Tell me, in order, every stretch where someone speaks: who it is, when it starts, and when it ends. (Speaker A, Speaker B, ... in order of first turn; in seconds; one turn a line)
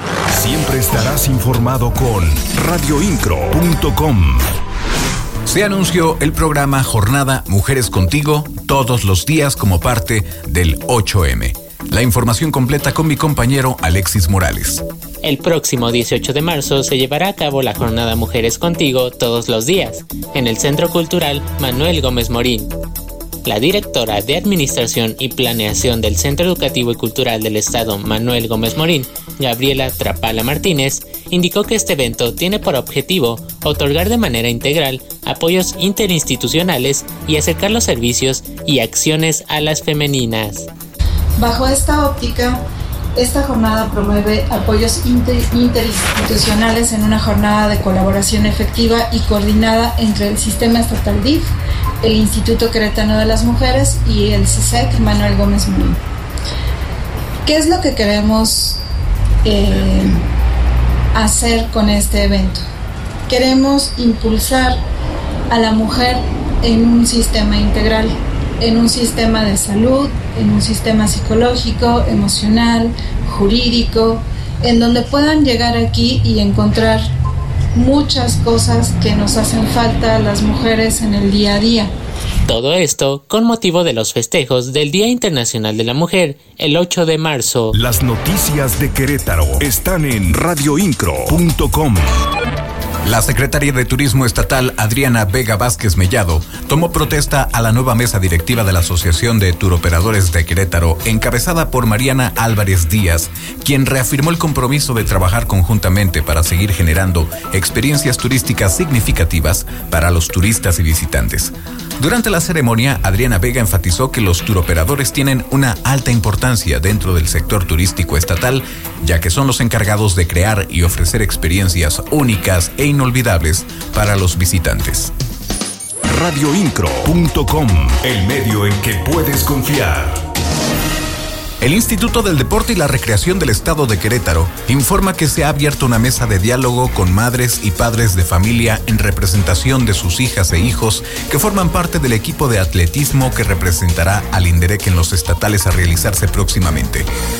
Speaker A: 0.3-4.5
Speaker B: 5.5-14.8
Speaker C: 15.2-22.7
Speaker C: 23.4-40.7
Speaker D: 41.4-42.6
Speaker D: 43.1-56.0
Speaker D: 57.4-58.8
Speaker D: 59.4-60.2
Speaker D: 61.1-62.6
Speaker D: 63.3-64.8
Speaker D: 65.5-77.0
Speaker D: 77.7-81.9
Speaker C: 82.5-87.8
Speaker A: 87.7-92.1
Speaker B: 93.0-125.1
Speaker A: 126.0-130.2
Speaker B: 131.6-147.1